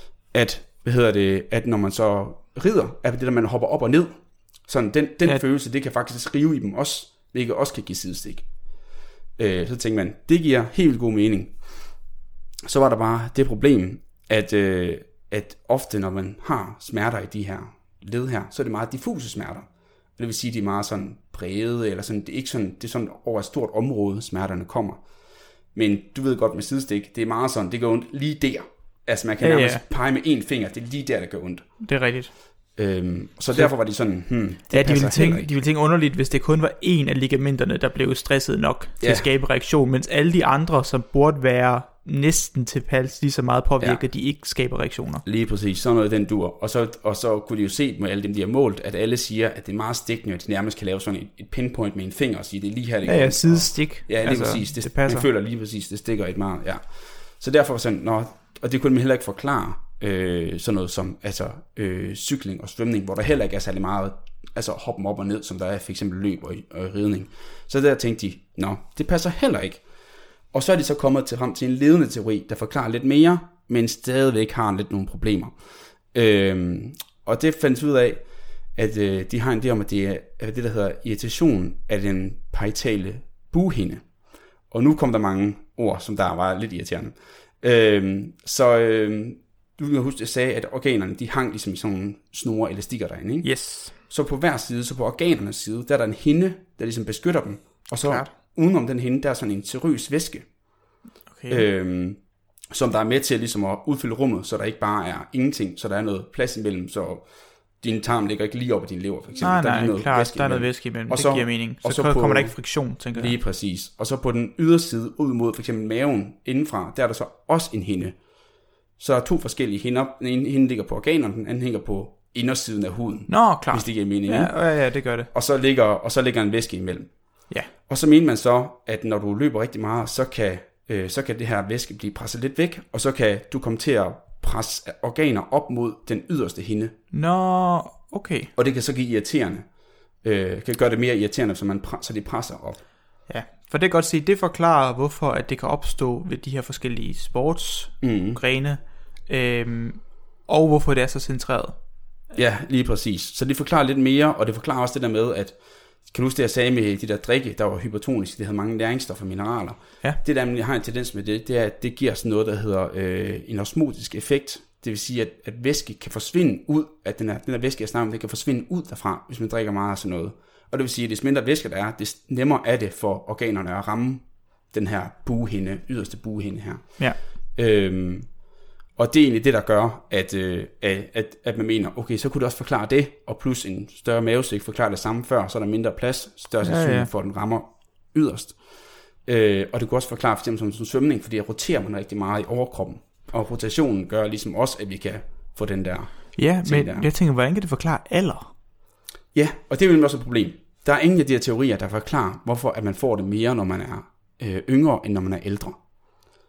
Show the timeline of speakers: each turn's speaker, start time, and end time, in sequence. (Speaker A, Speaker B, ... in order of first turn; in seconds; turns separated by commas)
Speaker A: 0.3-8.4, Speaker A: 9.4-11.6, Speaker A: 12.6-19.6, Speaker A: 20.2-25.0, Speaker A: 25.7-31.6, Speaker B: 29.4-29.8, Speaker B: 31.8-32.3, Speaker A: 32.8-35.5, Speaker B: 34.7-45.2, Speaker A: 39.0-39.3, Speaker A: 45.2-69.8, Speaker B: 53.0-55.2, Speaker A: 70.5-75.5, Speaker A: 76.1-78.2, Speaker A: 78.7-84.0, Speaker A: 84.7-100.5, Speaker B: 93.4-93.9, Speaker B: 98.0-98.3, Speaker B: 101.3-101.6, Speaker A: 101.5-107.2, Speaker A: 107.8-118.2, Speaker B: 109.4-113.3, Speaker A: 119.0-127.3, Speaker B: 123.3-125.3, Speaker A: 127.9-136.9, Speaker B: 137.1-138.5, Speaker A: 138.6-139.7, Speaker A: 140.2-142.8, Speaker B: 143.3-151.8, Speaker A: 148.0-148.4, Speaker A: 152.3-178.4, Speaker A: 178.9-188.6, Speaker B: 186.6-187.1, Speaker A: 189.2-197.1, Speaker B: 196.3-198.5, Speaker A: 199.3-206.0